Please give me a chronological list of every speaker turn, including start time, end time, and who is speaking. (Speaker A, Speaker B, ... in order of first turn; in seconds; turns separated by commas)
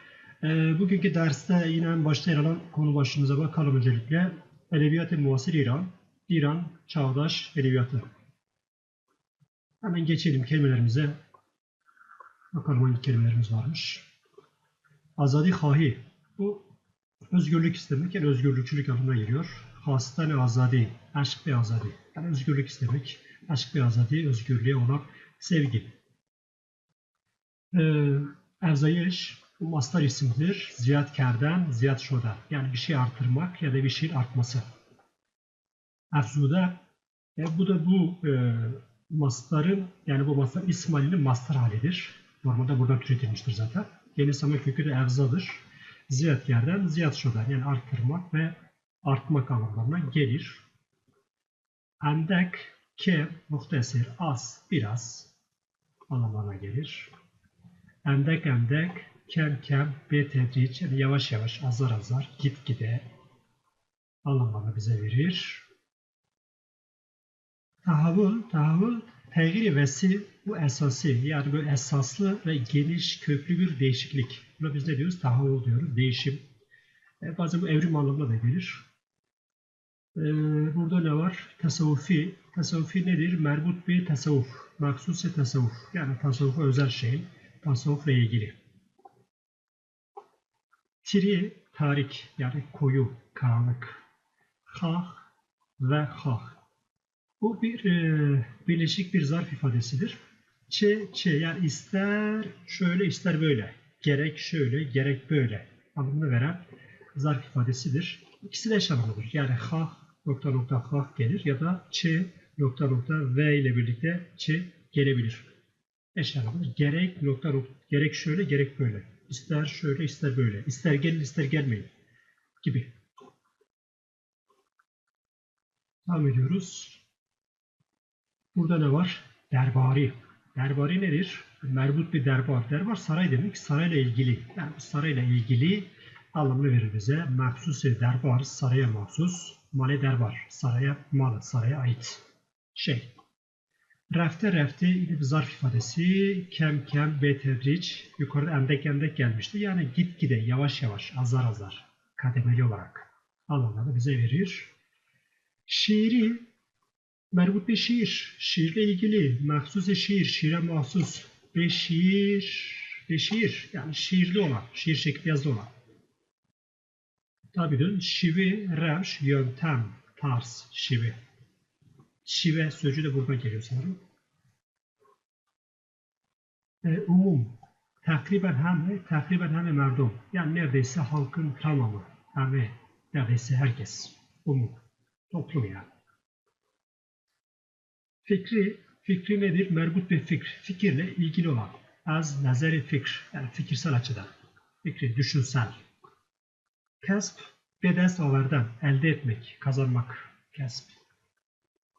Speaker A: 0.4-8.1, Speaker A: 9.8-11.2, Speaker A: 12.5-14.0, Speaker A: 15.2-16.7, Speaker A: 17.3-25.9, Speaker A: 27.7-34.6, Speaker A: 36.1-36.8, Speaker A: 37.4-50.6, Speaker A: 52.0-55.3, Speaker A: 56.1-57.1, Speaker A: 58.0-63.0, Speaker A: 64.2-65.7, Speaker A: 67.8-76.4, Speaker A: 77.2-78.8, Speaker A: 80.1-88.5, Speaker A: 91.0-94.0, Speaker A: 94.7-95.2, Speaker A: 95.8-96.6, Speaker A: 97.4-106.6, Speaker A: 107.1-115.5, Speaker A: 116.1-121.9, Speaker A: 122.6-122.9, Speaker A: 126.0-127.0, Speaker A: 128.5-142.2, Speaker A: 142.7-143.1, Speaker A: 144.1-154.7, Speaker A: 155.7-156.4, Speaker A: 157.3-165.7, Speaker A: 167.5-171.2, Speaker A: 172.2-174.0, Speaker A: 176.8-185.9, Speaker A: 188.2-194.3, Speaker A: 194.8-195.8, Speaker A: 197.0-201.0